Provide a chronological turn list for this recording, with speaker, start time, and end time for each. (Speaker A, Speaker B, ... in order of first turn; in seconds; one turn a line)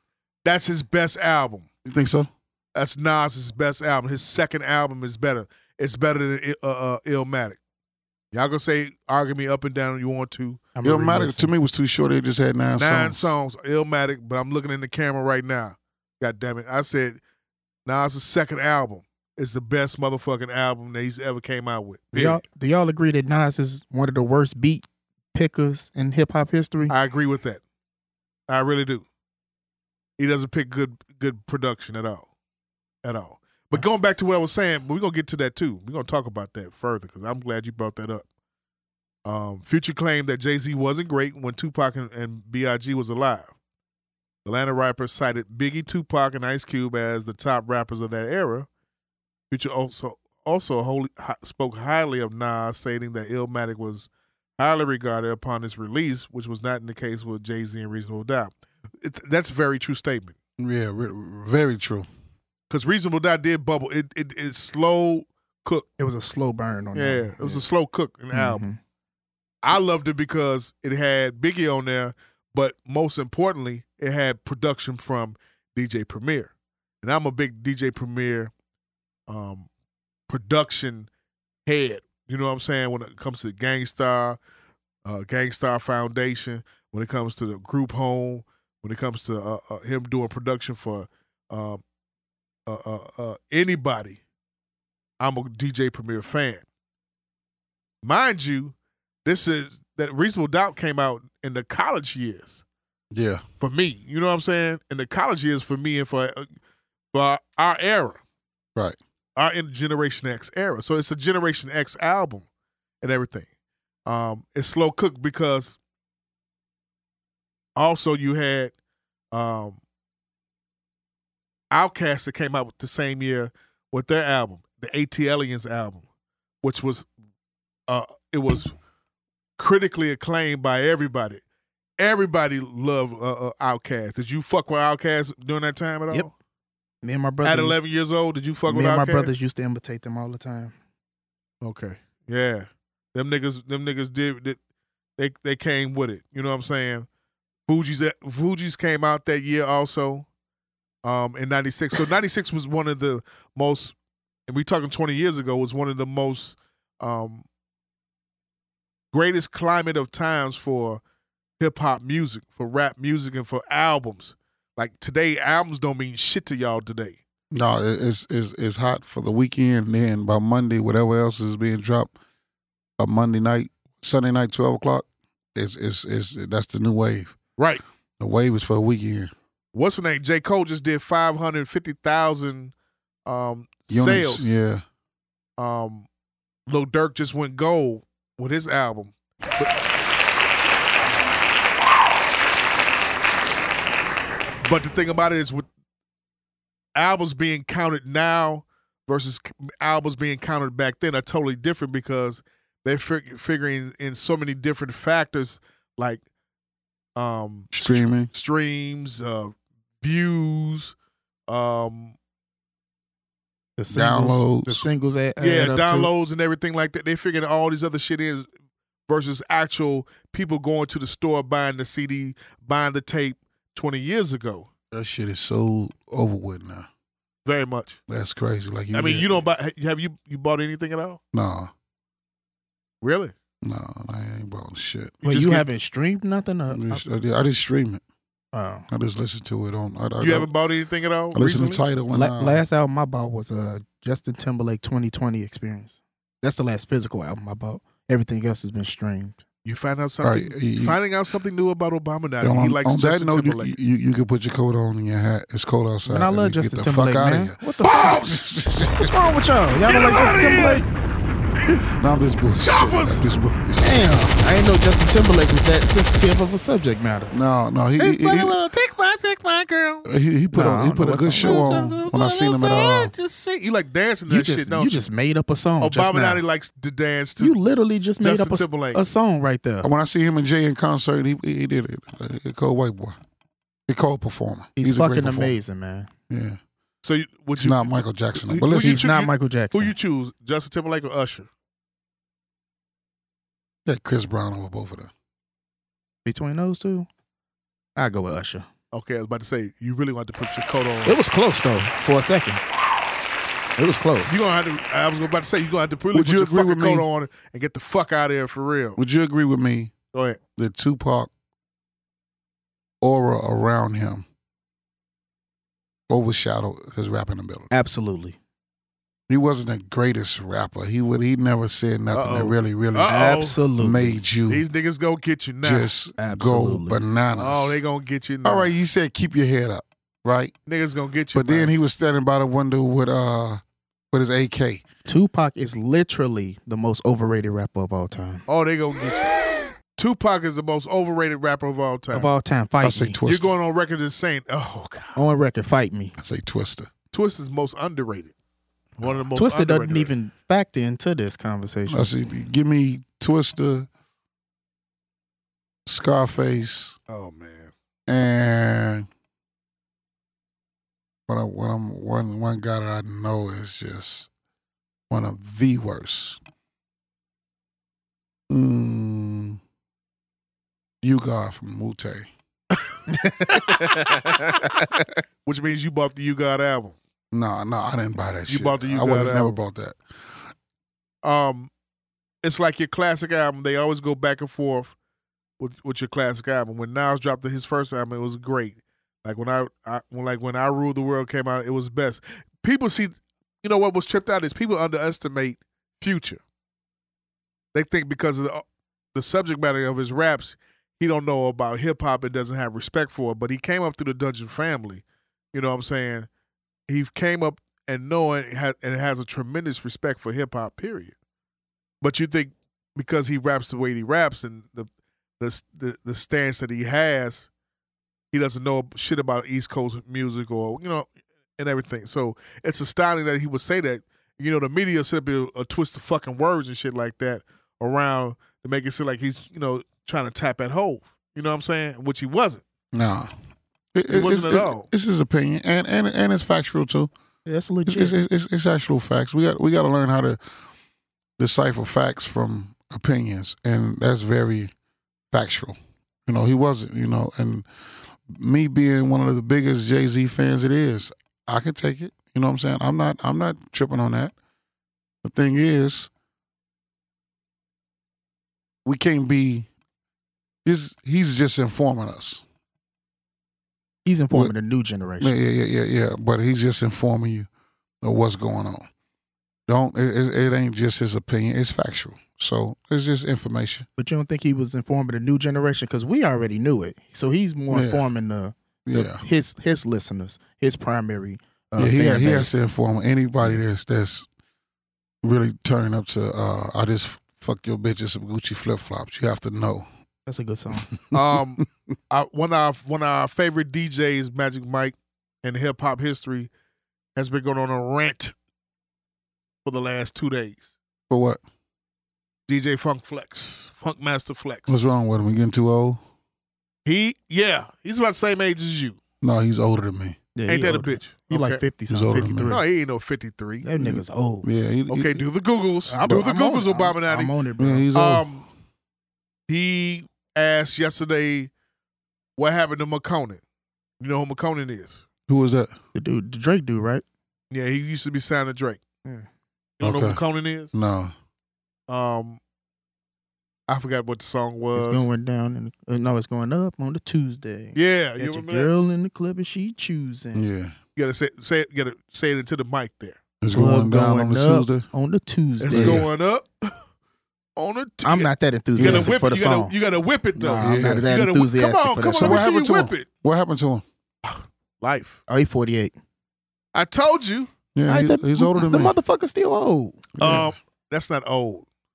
Speaker A: 0.4-1.6
Speaker B: 1.8-2.3
Speaker A: 2.7-7.6
Speaker A: 8.3-10.7
Speaker C: 10.8-11.5
Speaker B: 10.8-13.3
Speaker A: 12.8-17.2
Speaker A: 17.9-22.4
Speaker C: 22.1-26.9
Speaker A: 26.9-27.6
Speaker A: 28.5-29.0
Speaker A: 30.2-32.2
Speaker A: 33.0-38.2
Speaker A: 39.2-43.5
Speaker A: 44.4-48.7
Speaker A: 49.5-60.4
Speaker B: 60.6-62.1
Speaker A: 62.7-65.9
Speaker C: 66.0-67.6
Speaker A: 66.9-68.7
Speaker C: 68.3-68.8
Speaker A: 69.6-76.5
Speaker A: 77.0-78.5
Speaker A: 79.3-79.7
Speaker A: 80.3-81.1
Speaker A: 81.7-84.4
Speaker A: 85.0-91.8
Speaker A: 92.7-94.2
Speaker A: 95.2-96.6
Speaker A: 98.0-102.6
Speaker B: 103.1-103.4
Speaker A: 103.6-106.5
Speaker A: 107.1-108.2
Speaker A: 109.3-112.5
Speaker A: 113.0-113.5
Speaker A: 114.0-115.8
Speaker A: 117.8-118.7
Speaker A: 119.3-119.8
Speaker A: 121.7-126.0
Speaker A: 126.6-127.1
Speaker A: 127.9-128.7
Speaker A: 129.6-131.4
Speaker A: 132.0-136.3
Speaker C: 137.0-137.8
Speaker A: 137.4-139.3
Speaker C: 138.7-140.7
Speaker A: 141.6-144.6
Speaker A: 145.2-147.1
Speaker A: 147.7-150.2
Speaker A: 151.0-153.9
Speaker A: 154.5-157.4
Speaker A: 159.1-161.0
Speaker A: 161.6-167.2
Speaker B: 167.5-172.1
Speaker B: 173.0-177.4
Speaker A: 177.6-177.8
Speaker B: 178.2-179.3
Speaker A: 179.7-182.7
Speaker A: 183.2-184.5
Speaker B: 183.9-184.8
Speaker A: 185.6-186.1
Speaker A: 186.7-189.7
Speaker A: 194.6-195.7
Speaker A: 196.9-206.2
Speaker A: 207.2-210.9
Speaker B: 207.7-208.3
Speaker A: 211.5-212.1
Speaker C: 213.8-216.1
Speaker B: 213.9-214.9
Speaker A: 215.4-218.5
Speaker A: 219.1-224.7
Speaker B: 224.9-226.9
Speaker A: 227.4-228.0
Speaker B: 228.1-229.4
Speaker A: 228.9-231.2
Speaker B: 231.3-231.7
Speaker A: 233.0-233.3
Speaker B: 233.6-235.2
Speaker C: 235.2-237.0
Speaker A: 235.3-235.6
Speaker B: 236.7-238.0
Speaker C: 238.5-238.8
Speaker B: 238.9-240.5
Speaker A: 240.2-241.8
Speaker B: 241.3-242.6
Speaker C: 242.1-249.4
Speaker A: 249.6-253.7
Speaker B: 250.2-251.0
Speaker B: 252.4-259.1
Speaker C: 256.0-260.9
Speaker A: 257.8-258.4
Speaker A: 259.9-260.9
Speaker B: 262.0-264.2
Speaker A: 262.6-263.2
Speaker C: 263.8-267.3
Speaker B: 267.3-268.6
Speaker A: 268.0-270.0
Speaker B: 270.0-273.1
Speaker C: 270.5-271.9
Speaker A: 271.4-275.1
Speaker C: 274.3-276.4
Speaker A: 275.8-277.6
Speaker C: 277.4-279.9
Speaker A: 278.2-279.0
Speaker B: 279.8-283.2
Speaker B: 283.9-285.6
Speaker C: 284.8-286.1
Speaker B: 286.3-286.6
Speaker A: 287.0-291.5
Speaker B: 287.5-289.1
Speaker C: 288.8-289.9
Speaker B: 293.9-295.1
Speaker C: 296.2-297.1
Speaker C: 297.9-298.7
Speaker A: 298.9-301.2
Speaker C: 301.0-302.6
Speaker C: 303.8-304.4
Speaker A: 304.2-309.0
Speaker B: 306.1-307.1
Speaker B: 309.0-309.9
Speaker A: 310.1-310.4
Speaker B: 310.6-311.3
Speaker B: 313.0-314.2
Speaker B: 316.1-317.7
Speaker C: 317.7-318.4
Speaker B: 319.3-323.1
Speaker A: 322.1-323.6
Speaker C: 323.0-324.2
Speaker B: 323.8-324.6
Speaker A: 324.5-325.9
Speaker B: 325.6-327.8
Speaker C: 326.2-327.0
Speaker A: 327.4-328.7
Speaker B: 328.4-330.5
Speaker A: 330.7-331.7
Speaker B: 331.3-334.8
Speaker C: 335.1-338.4
Speaker A: 338.5-339.3
Speaker A: 339.9-342.3
Speaker C: 342.1-343.2
Speaker B: 342.8-343.5
Speaker A: 343.2-345.2
Speaker C: 345.1-346.1
Speaker B: 346.2-346.9
Speaker A: 347.1-348.3
Speaker A: 349.0-350.1
Speaker C: 349.3-352.2
Speaker B: 351.9-353.9
Speaker B: 355.9-357.0
Speaker A: 357.1-357.7
Speaker B: 358.1-359.1
Speaker B: 361.3-364.3
Speaker B: 365.1-366.4
Speaker B: 368.5-369.6
Speaker B: 371.0-372.3
Speaker C: 373.1-373.7
Speaker A: 373.5-374.5
Speaker A: 375.4-376.9
Speaker B: 377.3-380.0
Speaker A: 378.5-379.6
Speaker A: 381.2-381.7
Speaker A: 382.4-384.9
Speaker A: 385.6-396.4
Speaker A: 397.7-398.6
Speaker A: 399.1-406.3
Speaker A: 406.9-411.1
Speaker A: 412.0-414.9
Speaker A: 415.4-417.5
Speaker A: 418.3-432.6
Speaker B: 432.9-433.3
Speaker B: 433.9-437.1
Speaker A: 434.1-434.9
Speaker C: 437.4-438.1
Speaker B: 437.9-440.4
Speaker B: 441.4-444.7
Speaker B: 445.3-447.7
Speaker B: 448.3-454.3
Speaker B: 455.2-456.1
Speaker B: 458.8-459.7
Speaker B: 460.6-462.4
Speaker C: 464.1-465.3
Speaker B: 465.2-467.5
Speaker B: 468.0-468.9
Speaker B: 469.7-473.9
Speaker C: 474.0-482.6
Speaker B: 477.7-478.0
Speaker B: 478.9-479.2
Speaker B: 481.8-484.3
Speaker B: 485.2-489.9
Speaker C: 490.2-490.9
Speaker B: 491.1-491.6
Speaker A: 491.1-496.5
Speaker A: 497.1-498.3
Speaker A: 499.6-500.7
Speaker B: 501.1-501.4
Speaker A: 502.5-504.9
Speaker B: 504.7-506.0
Speaker A: 506.8-509.0
Speaker B: 509.2-510.2
Speaker C: 510.4-512.6
Speaker A: 510.5-511.6
Speaker B: 511.9-512.5
Speaker A: 512.5-513.6
Speaker C: 513.6-514.5
Speaker B: 513.8-515.2
Speaker A: 514.9-517.3
Speaker C: 515.9-517.9
Speaker B: 517.6-518.3
Speaker A: 517.9-518.4
Speaker A: 519.5-521.5
Speaker A: 522.4-523.4
Speaker A: 524.0-525.0
Speaker B: 525.3-525.8
Speaker C: 525.9-527.0
Speaker A: 527.5-528.8
Speaker A: 529.8-530.7
Speaker B: 529.8-531.1
Speaker A: 531.9-532.4
Speaker A: 533.7-535.1
Speaker C: 534.7-540.5
Speaker A: 537.7-538.7
Speaker B: 540.3-540.8
Speaker A: 541.0-543.2
Speaker B: 543.4-544.9
Speaker C: 543.5-546.0
Speaker A: 545.6-546.7
Speaker B: 545.7-546.1
Speaker A: 547.5-553.1
Speaker C: 548.0-549.7
Speaker B: 548.8-549.1
Speaker B: 550.4-551.1
Speaker C: 550.4-552.4
Speaker B: 552.2-553.8
Speaker A: 554.2-555.2
Speaker C: 555.3-555.9
Speaker A: 556.7-557.5
Speaker B: 557.7-558.9
Speaker C: 557.9-560.1
Speaker B: 560.2-560.5
Speaker A: 560.2-561.6